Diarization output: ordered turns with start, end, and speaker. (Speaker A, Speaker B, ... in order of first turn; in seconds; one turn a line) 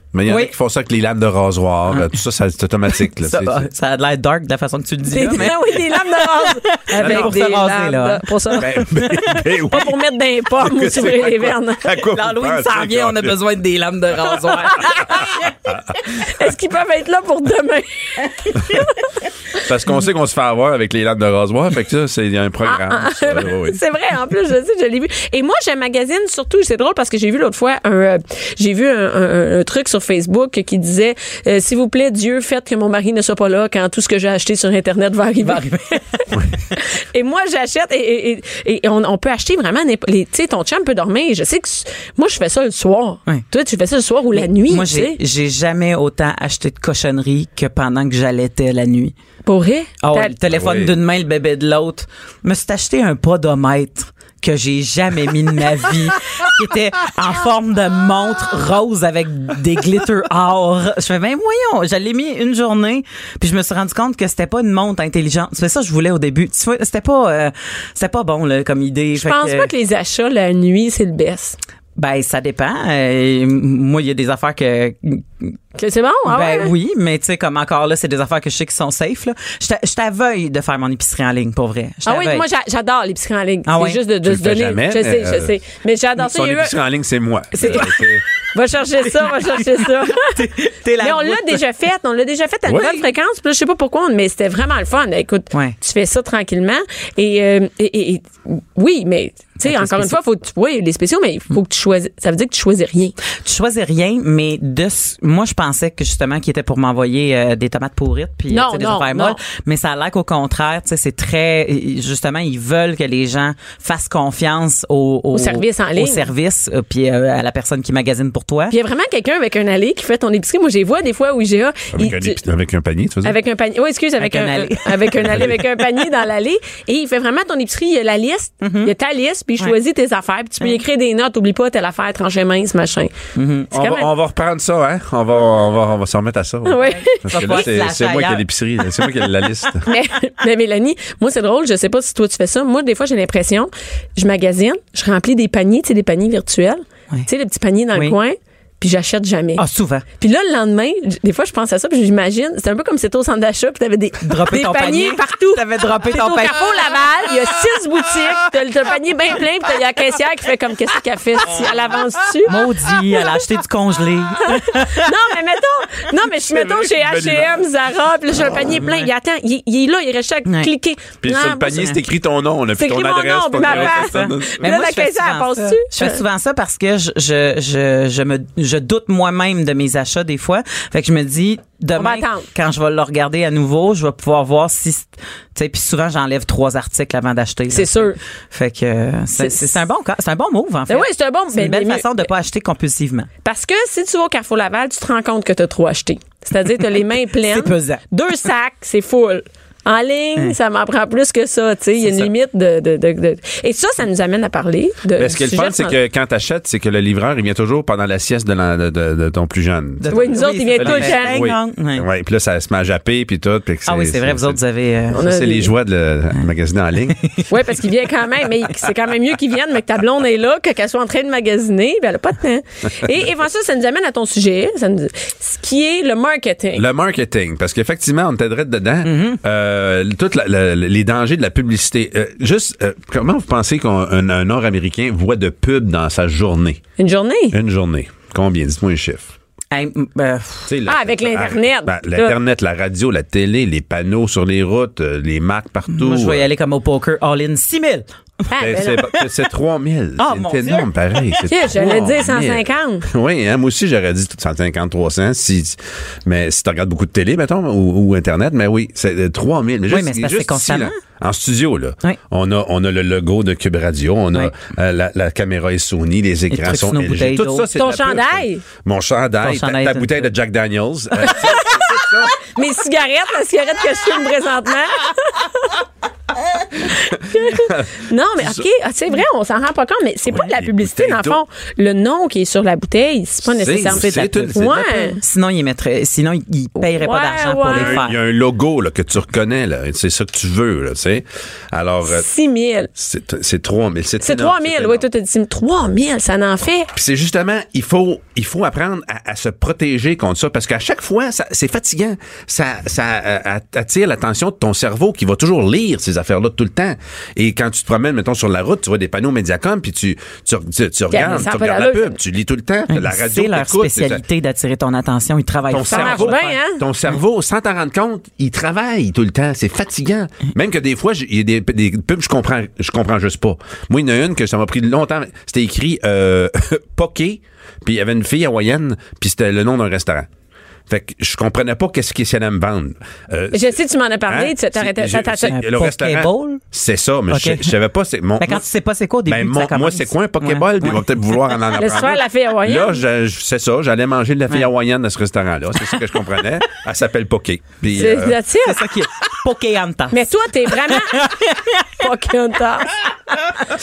Speaker A: 0.1-3.7
Speaker B: 0.3-0.5
Speaker B: 2.9-9.4
Speaker C: 5.1-8.8
Speaker A: 7.0-7.5
Speaker A: 8.6-10.0
Speaker C: 9.7-11.9
Speaker A: 10.6-13.4
Speaker B: 12.0-15.5
Speaker C: 14.6-15.5
Speaker C: 16.0-19.1
Speaker A: 19.6-23.8
Speaker C: 22.6-45.2
Speaker B: 35.4-36.0
Speaker B: 44.3-49.1
Speaker C: 49.5-50.3
Speaker B: 50.0-69.7
Speaker A: 50.5-51.0
Speaker C: 69.2-71.6
Speaker B: 72.0-75.5
Speaker C: 75.8-76.7
Speaker B: 76.3-82.5
Speaker C: 82.0-86.8
Speaker B: 83.7-84.0
Speaker A: 84.2-85.5
Speaker A: 86.2-88.2
Speaker C: 87.5-88.0
Speaker B: 87.5-88.0
Speaker C: 88.5-90.4
Speaker B: 89.1-91.6
Speaker C: 91.0-103.2
Speaker A: 92.7-93.0
Speaker B: 95.5-95.8
Speaker B: 99.6-100.2
Speaker B: 103.4-118.8
Speaker C: 108.5-109.4
Speaker C: 115.3-116.3
Speaker C: 118.7-122.4
Speaker A: 121.9-123.4
Speaker C: 123.2-133.2
Speaker B: 124.2-125.5
Speaker B: 128.6-128.9
Speaker B: 133.3-133.7
Speaker C: 133.7-134.1
Speaker A: 133.7-139.9
Speaker C: 136.7-137.7
Speaker B: 136.8-139.7
Speaker C: 139.8-149.6
Speaker B: 149.6-150.1
Speaker C: 150.2-163.4
Speaker B: 154.2-156.8
Speaker B: 162.4-165.1
Speaker C: 164.4-172.0
Speaker A: 166.5-167.6
Speaker B: 168.6-169.1
Speaker B: 170.5-170.7
Speaker A: 171.2-174.7
Speaker C: 172.8-176.2
Speaker B: 173.6-193.3
Speaker C: 181.9-182.5
Speaker C: 187.7-188.2
Speaker C: 189.4-189.8
Speaker C: 190.9-192.3
Speaker C: 193.4-206.0
Speaker B: 197.4-198.0
Speaker B: 202.0-202.3
Speaker A: 205.2-210.1
Speaker B: 210.0-212.1
Speaker C: 210.1-211.4
Speaker A: 210.8-214.6
Speaker B: 213.9-215.2
Speaker C: 215.1-215.7
Speaker A: 215.1-217.3
Speaker C: 217.5-226.8
Speaker A: 226.8-236.8
Speaker B: 229.0-229.4
Speaker C: 237.0-237.6
Speaker A: 237.5-239.3
Speaker B: 239.7-240.7
Speaker A: 240.7-246.5
Speaker C: 240.9-242.3
Speaker B: 245.9-248.1
Speaker C: 248.5-249.1
Speaker A: 248.6-272.4
Speaker B: 248.8-249.3
Speaker B: 250.2-251.5
Speaker C: 251.5-253.1
Speaker B: 259.9-260.9
Speaker B: 266.5-267.7
Speaker C: 267.8-268.6
Speaker B: 269.4-270.3
Speaker C: 271.2-275.8
Speaker C: 276.8-285.2
Speaker A: 277.4-278.7
Speaker A: 280.3-281.4
Speaker A: 283.4-285.1
Speaker B: 283.9-284.7
Speaker B: 285.2-288.2
Speaker C: 286.8-288.0
Speaker A: 287.7-292.3
Speaker C: 292.0-292.9
Speaker A: 293.0-295.1
Speaker C: 294.2-296.9
Speaker A: 296.9-314.2
Speaker C: 311.1-312.2
Speaker B: 312.9-316.6
Speaker A: 315.7-330.3
Speaker C: 315.9-316.8
Speaker A: 330.9-338.7
Speaker C: 333.5-335.6
Speaker B: 335.5-336.6
Speaker B: 337.3-337.8
Speaker B: 338.4-341.4
Speaker A: 339.3-348.4
Speaker C: 341.8-343.0
Speaker B: 345.8-346.5
Speaker C: 347.9-348.8
Speaker B: 348.6-352.1
Speaker C: 350.1-351.3
Speaker C: 352.0-353.0